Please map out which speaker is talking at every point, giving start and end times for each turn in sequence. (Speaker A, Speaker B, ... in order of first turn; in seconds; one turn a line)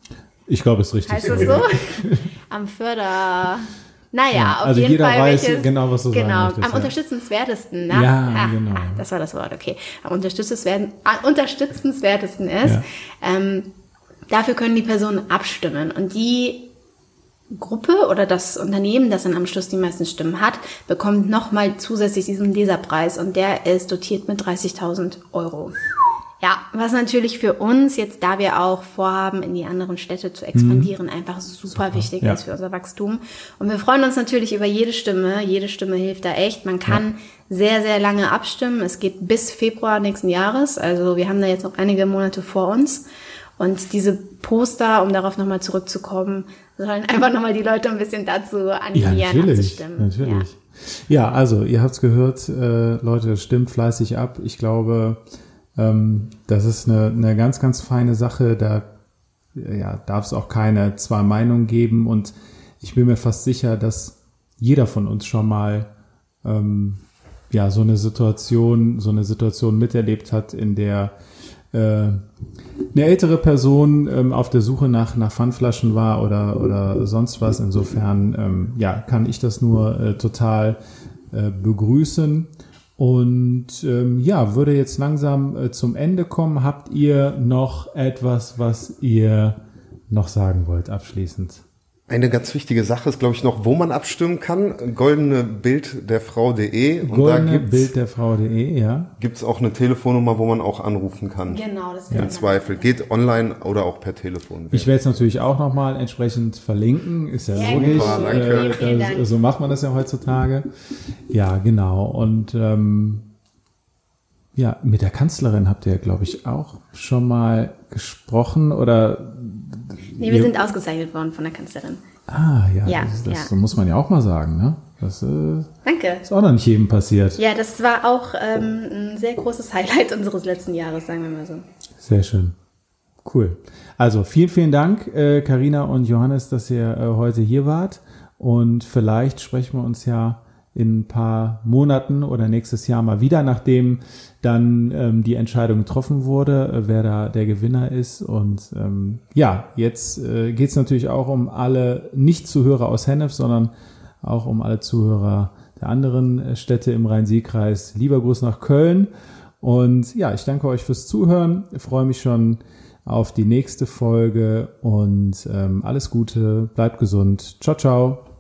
Speaker A: 0.5-2.3
Speaker B: 1.1-13.7
Speaker A: 4.3-6.9
Speaker A: 7.9-9.0
Speaker B: 14.3-16.7
Speaker B: 17.5-25.8
Speaker B: 26.4-43.0
Speaker A: 30.5-30.9
Speaker A: 31.8-32.4
Speaker B: 43.6-50.4
Speaker A: 48.9-55.2
Speaker A: 55.8-58.9
Speaker A: 59.5-65.9
Speaker A: 66.4-71.1
Speaker A: 71.7-72.2
Speaker A: 72.9-80.8
Speaker A: 81.3-89.6
Speaker A: 90.1-91.6
Speaker C: 92.1-97.9
Speaker A: 97.0-99.1
Speaker C: 99.2-101.6
Speaker B: 101.5-102.9
Speaker C: 102.1-104.9
Speaker A: 104.7-110.7
Speaker B: 107.5-109.3
Speaker C: 107.6-108.8
Speaker A: 111.3-113.3
Speaker A: 114.5-120.5
Speaker B: 120.2-122.0
Speaker A: 122.3-125.7
Speaker B: 122.8-123.5
Speaker B: 125.8-126.2
Speaker A: 126.2-127.4
Speaker B: 127.4-131.6
Speaker A: 132.0-132.6
Speaker A: 133.2-153.7
Speaker A: 154.2-159.1
Speaker A: 159.6-168.2